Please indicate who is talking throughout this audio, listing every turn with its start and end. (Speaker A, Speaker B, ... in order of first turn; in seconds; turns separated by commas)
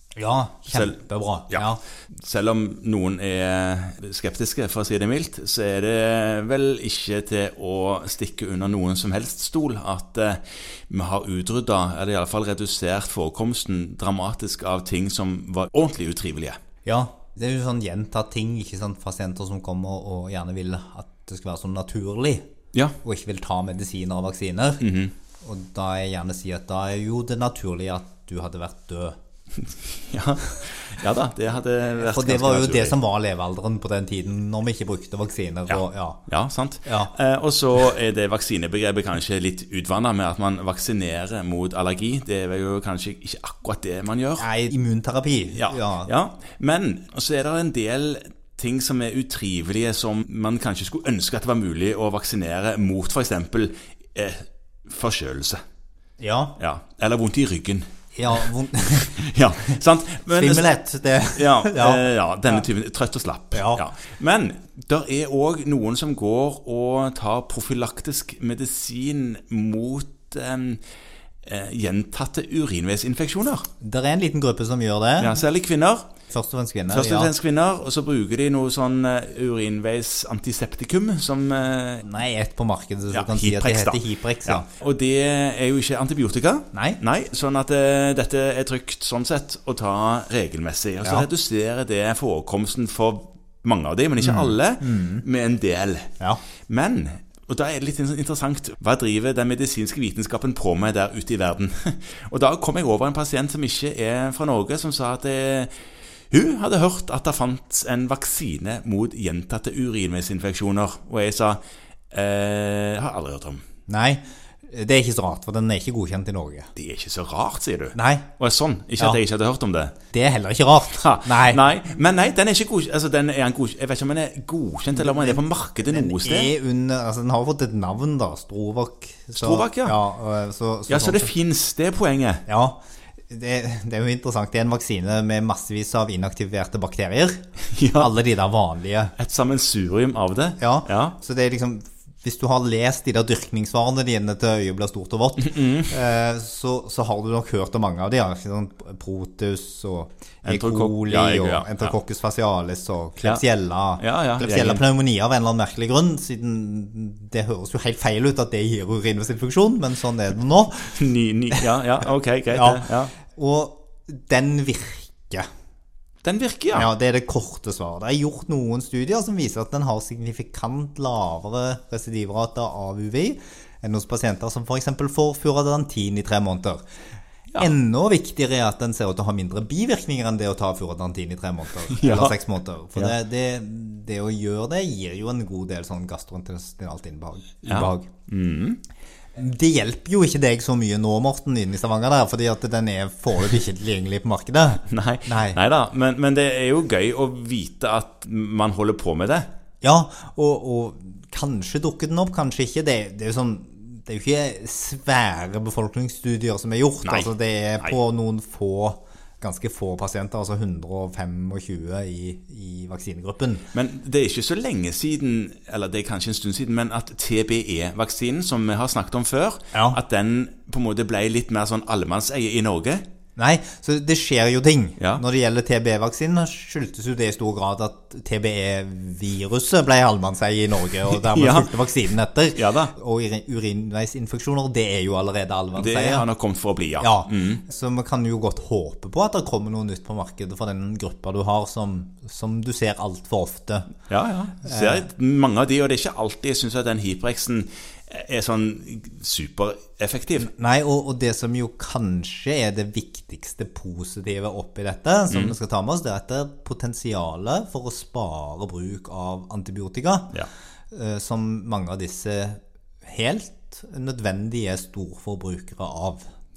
Speaker A: 0.1-1.8, Speaker B: 0.7-16.6, Speaker A: 16.8-22.4, Speaker A: 23.0-24.8, Speaker B: 24.8-25.1, Speaker A: 25.4-29.1, Speaker B: 29.6-33.0, Speaker A: 32.0-36.2, Speaker B: 35.7-44.5, Speaker A: 36.8-37.1, Speaker A: 44.4-46.1, Speaker B: 45.5-55.6, Speaker A: 56.2-56.6, Speaker B: 56.6-60.7, Speaker A: 58.1-59.1, Speaker A: 60.3-62.7, Speaker B: 61.3-70.8, Speaker A: 63.5-63.8, Speaker B: 71.4-73.7, Speaker A: 73.8-75.4, Speaker B: 75.2-76.1, Speaker A: 76.3-77.3, Speaker B: 76.9-82.1, Speaker A: 82.0-84.7, Speaker B: 83.1-96.1, Speaker A: 86.7-87.0, Speaker A: 91.0-91.3, Speaker A: 94.2-95.2, Speaker B: 96.7-105.7, Speaker B: 106.3-111.6, Speaker B: 112.1-113.6, Speaker A: 113.9-116.7, Speaker B: 116.7-119.9, Speaker A: 117.9-118.3, Speaker A: 120.1-121.6, Speaker B: 120.9-126.5, Speaker A: 124.9-131.3, Speaker B: 129.3-130.0, Speaker B: 130.9-132.4, Speaker A: 132.5-137.4, Speaker B: 137.7-138.1, Speaker A: 137.9-139.1, Speaker B: 139.2-141.2, Speaker A: 140.6-160.9, Speaker B: 145.4-145.9, Speaker B: 150.4-151.9, Speaker B: 154.0-154.8, Speaker B: 160.8-163.2, Speaker A: 162.5-165.5, Speaker B: 166.2-166.9, Speaker A: 166.7-176.8, Speaker A: 177.6-188.1, Speaker B: 181.9-182.3, Speaker B: 187.7-188.8, Speaker A: 189.3-195.6, Speaker B: 194.9-199.5, Speaker A: 199.8-213.7, Speaker B: 207.0-207.9, Speaker B: 213.7-223.0, Speaker A: 223.4-236.2, Speaker B: 231.1-231.8, Speaker B: 232.5-232.9, Speaker B: 235.8-237.6, Speaker A: 237.0-243.9, Speaker B: 244.1-250.5, Speaker A: 244.6-245.1, Speaker A: 250.4-260.4, Speaker B: 255.3-255.6, Speaker A: 260.9-266.2